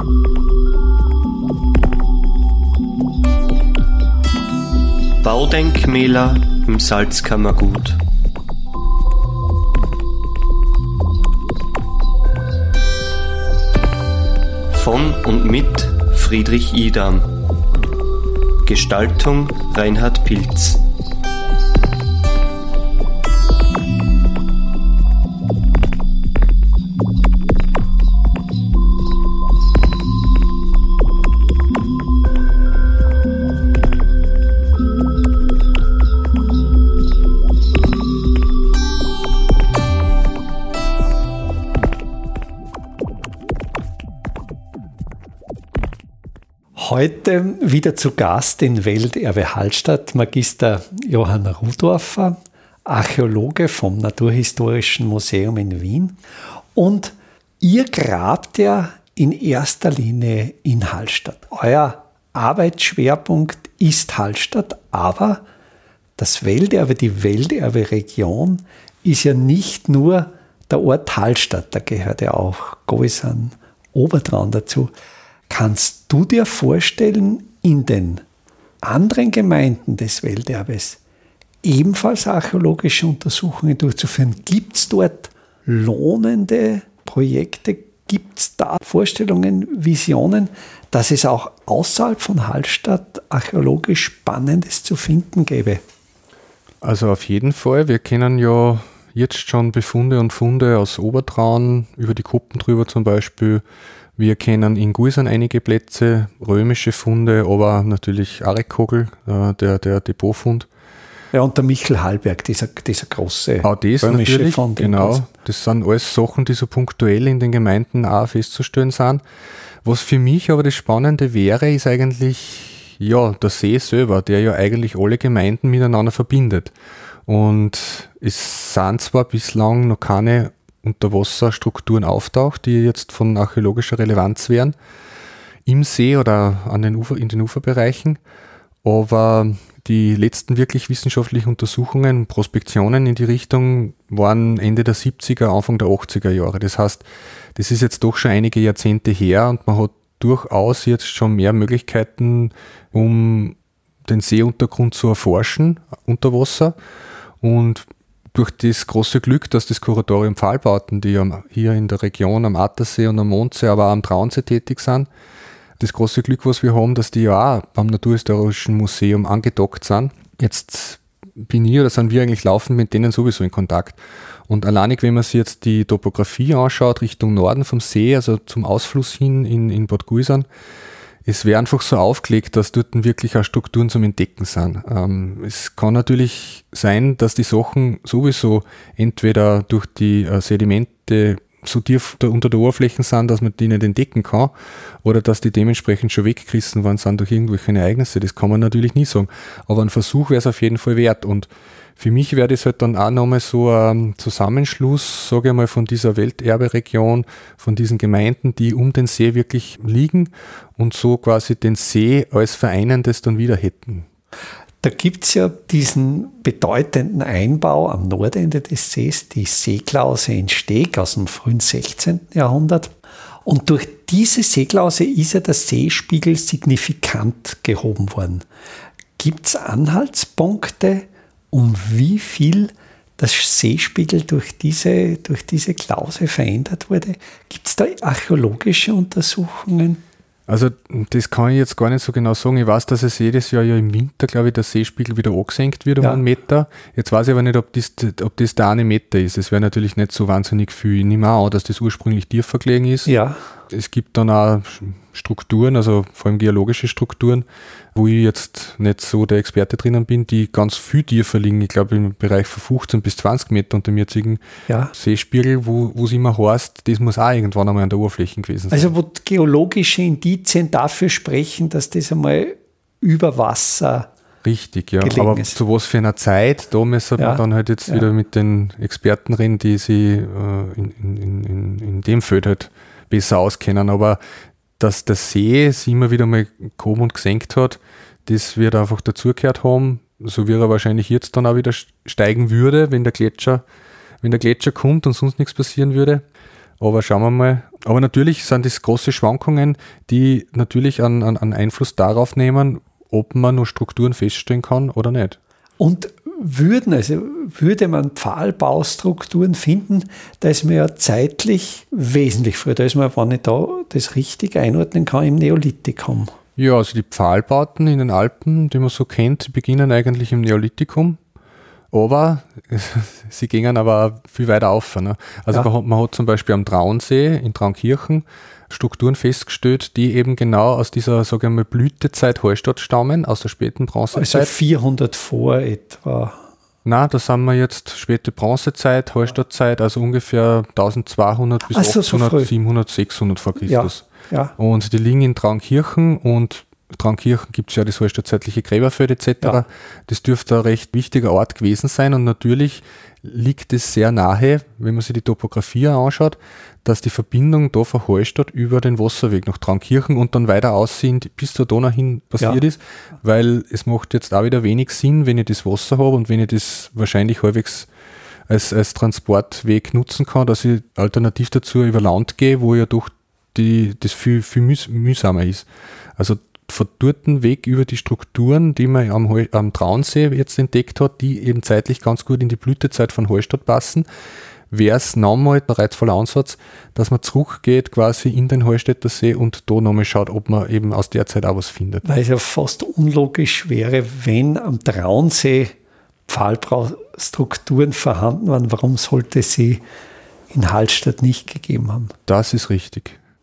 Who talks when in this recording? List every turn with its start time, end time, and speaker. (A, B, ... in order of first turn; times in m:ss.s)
0:05.2-0:08.0 A
0:14.7-0:17.3 A
0:18.6-0:20.8 A
0:46.8-0:56.2 B
0:56.7-1:05.4 B
1:06.2-1:14.9 B
1:15.5-1:18.2 B
1:18.8-1:21.0 B
1:21.6-1:35.8 B
1:36.8-1:43.6 C
1:44.2-1:50.7 C
1:51.3-1:55.2 B
1:53.6-1:59.2 C
1:59.8-2:06.7 C
2:07.3-2:14.7 C
2:15.6-2:18.2 C
2:18.8-2:27.0 C
2:27.6-2:36.8 C
2:37.4-2:45.1 C
2:45.8-3:00.5 C
3:01.2-3:14.5 C
3:15.0-3:34.0 C
3:34.8-3:42.9 B
3:43.4-3:48.4 B
3:49.2-4:00.0 B
4:00.5-4:13.1 C
4:13.0-4:13.4 B
4:13.7-4:24.4 C
4:24.7-4:24.9 B
4:24.9-4:28.9 C
4:28.7-4:34.1 B
4:34.4-4:44.2 C
4:35.0-4:35.6 B
4:37.2-4:38.1 B
4:44.8-4:53.6 C
4:54.2-4:56.2 C
4:56.8-5:05.4 C
5:05.8-5:16.3 B
5:16.6-5:21.2 C
5:21.9-5:34.5 C
5:34.1-5:36.4 B
5:36.8-6:07.9 C
5:41.7-5:42.5 B
5:43.6-5:44.5 B
6:08.5-6:15.7 C
6:16.2-6:24.0 C
6:24.7-6:32.0 C
6:32.0-6:35.7 B
6:36.3-6:39.8 B
6:40.5-6:42.1 B
6:42.3-6:43.2 C